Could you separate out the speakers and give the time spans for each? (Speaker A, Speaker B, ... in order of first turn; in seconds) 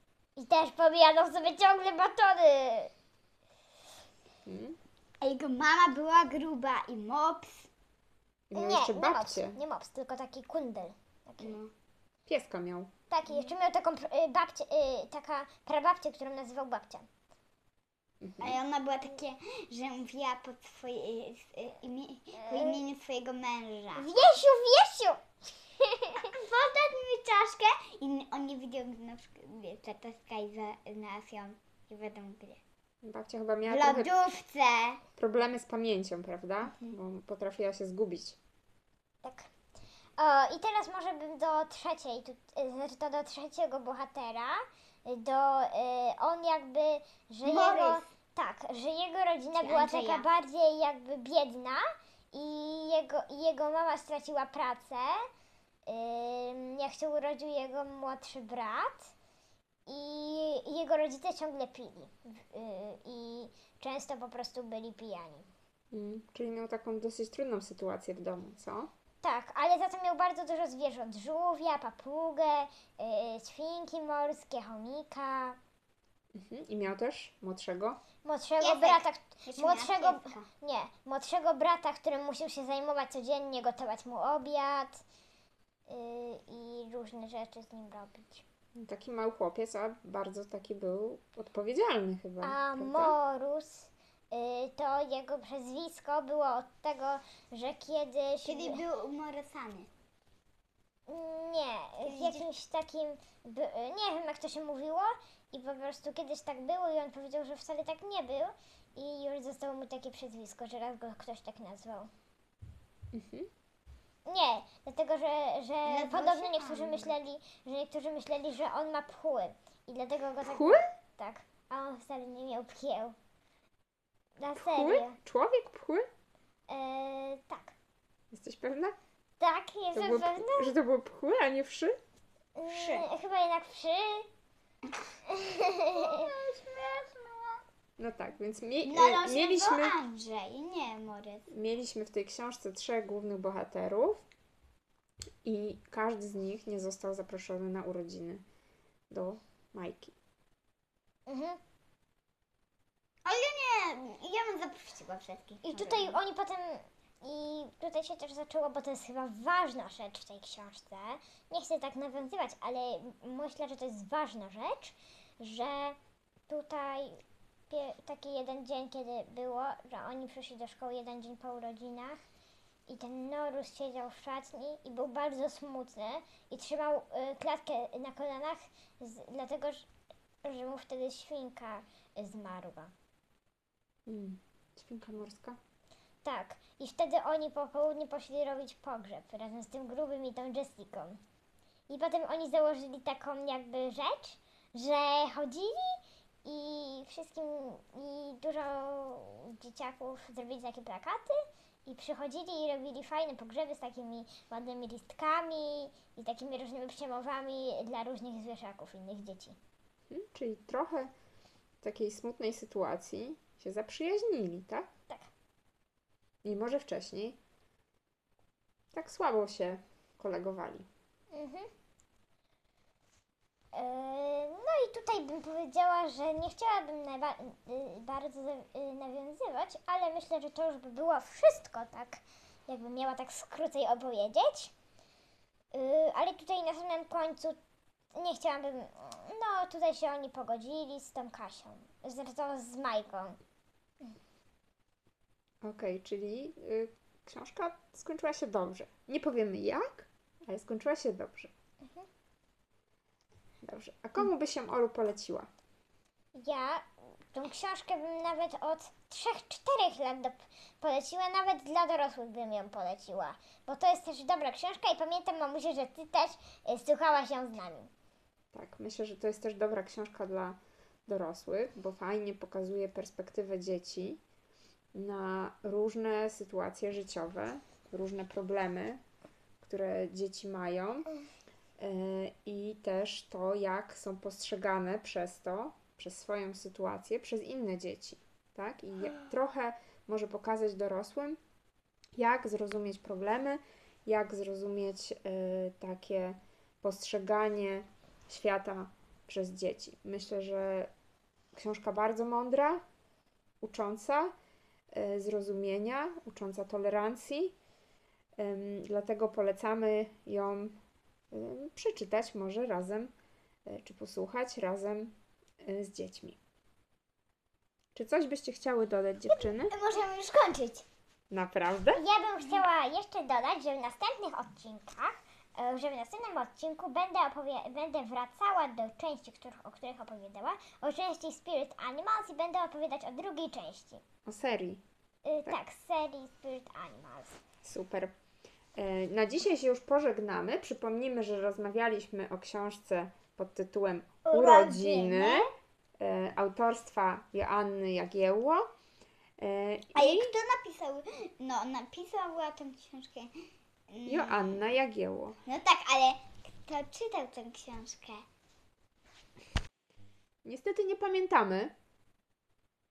Speaker A: 0.3-2.9, 8.5-11.6, 13.1-17.1, 22.4-22.8, 23.9-25.2, 25.8-26.2, 39.2-39.5, 40.2-55.2, 55.9-59.1, 59.9-65.5, 69.2-75.6, 78.2-85.0, 85.9-88.4, 92.4-98.8, 101.1-112.1, 114.2-123.1, 124.4-125.2, 126.7-127.7, 129.4-130.8, 132.6-134.3, 135.3-136.2, 151.3-151.6, 155.6-165.9, 166.5-172.2, 172.9-179.9, 180.4-182.9, 186.2-191.2, 191.9-201.3, 201.8-209.6, 221.3-221.7, 223.7-234.7, 235.7-237.6, 238.1-243.4, 256.3-267.9, 321.9-334.0, 335.2-337.4
Speaker B: 4.5-4.8, 8.5-9.6, 12.2-12.9, 18.2-18.6, 33.0-34.1, 35.2-38.4, 65.9-68.9, 76.3-78.0, 88.8-93.1, 113.1-113.5, 120.4-120.8, 124.5-126.0, 128.3-128.9, 129.9-131.9, 138.0-139.9, 141.5-144.2, 145.4-148.4, 149.1-150.1, 184.1-185.6, 210.1-211.1, 211.8-214.9, 216.4-217.4, 218.9-220.9, 245.6-251.5, 253.6-255.5, 268.5-274.2, 274.9-279.0, 279.6-281.1, 281.8-291.4, 292.1-300.9, 301.5-302.8, 303.6-304.3, 304.9-307.5, 308.4-310.8, 311.3-313.1, 313.6-316.4, 317.9-319.7, 321.3-322.0, 334.2-334.8, 337.6-338.1, 338.8-345.5, 346.0-348.7, 349.4-350.3, 354.1-355.4, 360.4-361.7
Speaker C: 5.2-7.7, 11.4-11.7, 18.4-24.1, 26.2-32.6, 33.7-35.0, 36.7-37.0, 47.4-48.0, 49.6-50.3, 78.6-80.5, 98.4-99.9, 102.0-102.4, 115.8-117.1, 132.7-133.1, 135.9-137.6, 138.8-141.4, 153.2-156.2, 319.3-320.8, 344.2-345.5, 349.9-353.3, 353.9-354.6, 355.4-358.2